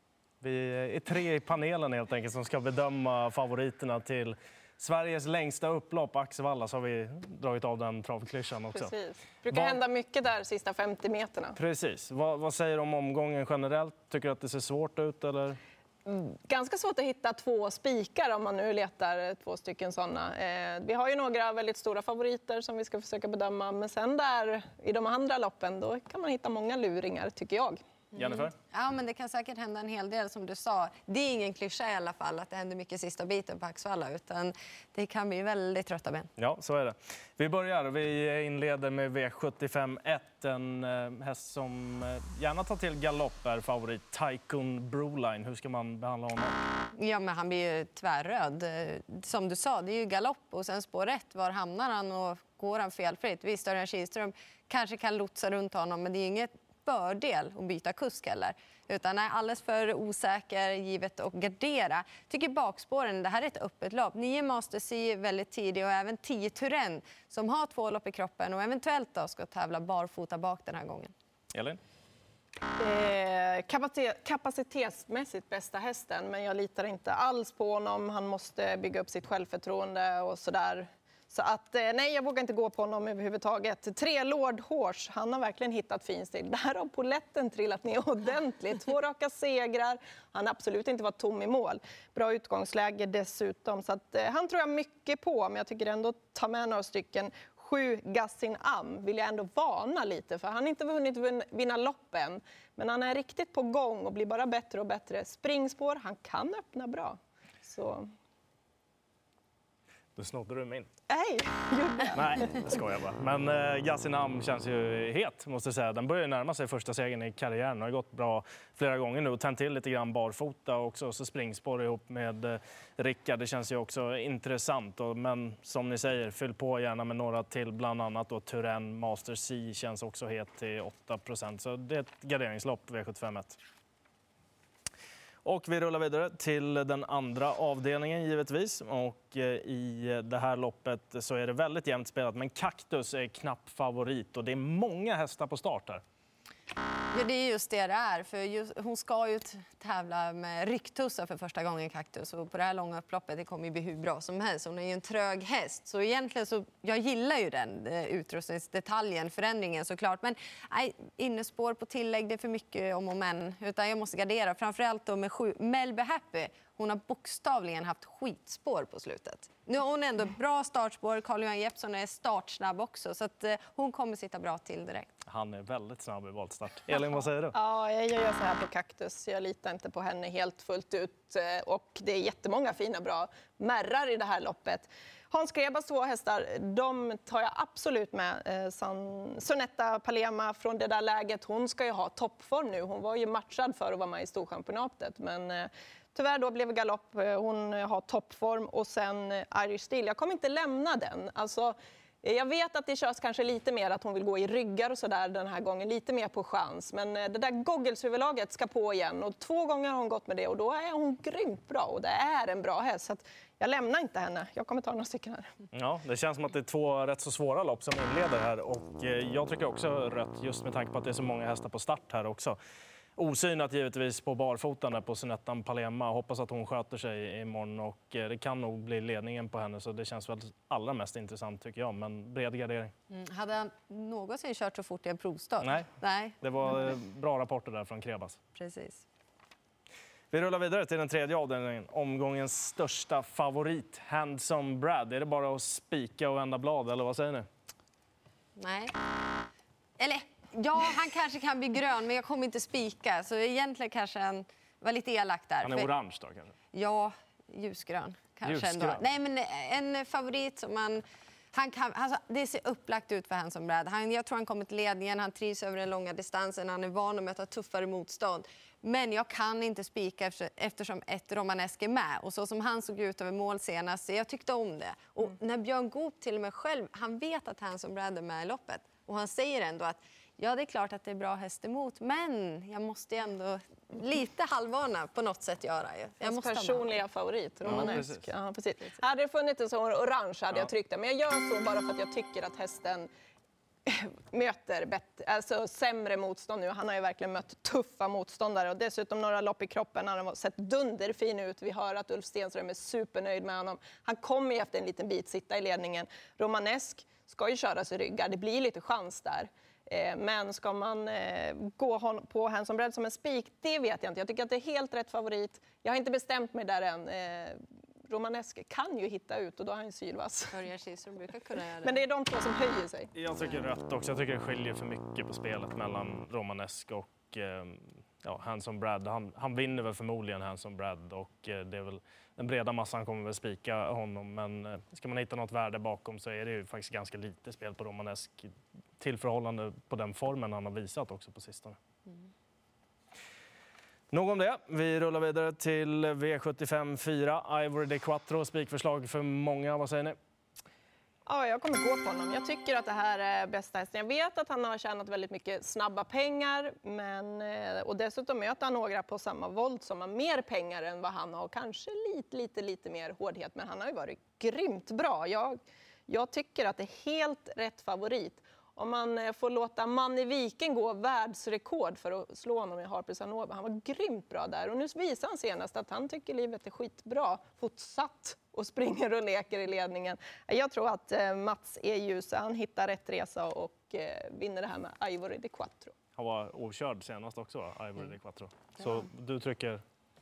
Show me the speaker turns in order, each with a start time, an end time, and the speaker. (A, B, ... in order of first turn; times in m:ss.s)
0:00.4-0:08.9 A
0:08.8-0:11.6 B
0:09.5-0:09.8 A
0:11.6-0:15.6 A
0:16.1-0:27.8 B
0:28.2-0:28.5 A
0:28.2-0:36.3 C
0:36.4-0:46.6 A
0:46.9-1:11.1 C
1:11.5-1:11.8 A
1:12.8-1:48.1 B
1:50.2-1:50.9 A
1:51.1-1:52.7 B
1:52.1-2:13.6 A
2:15.4-2:26.0 A
2:27.1-2:55.1 C
2:55.3-2:57.6 A
2:57.5-3:35.5 B
3:35.7-3:42.6 A
3:43.2-3:52.9 A
3:53.1-3:57.0 C
3:55.6-3:55.9 A
3:56.4-3:58.4 A
3:58.6-3:59.0 C
4:00.3-4:07.5 A
4:08.6-4:09.0 C
4:10.0-4:15.9 C
4:15.6-4:16.6 A
4:16.7-4:46.9 C
4:18.4-4:19.0 A
4:46.2-4:53.1 B
4:47.6-4:48.2 A
4:47.7-4:48.0 C
4:53.9-5:20.6 B
5:20.5-5:22.0 C
5:21.8-5:23.1 B
5:23.1-5:41.8 A
5:44.1-5:50.2 A
5:51.3-6:05.6 B
6:06.1-6:26.0 B
6:26.2-6:29.8 A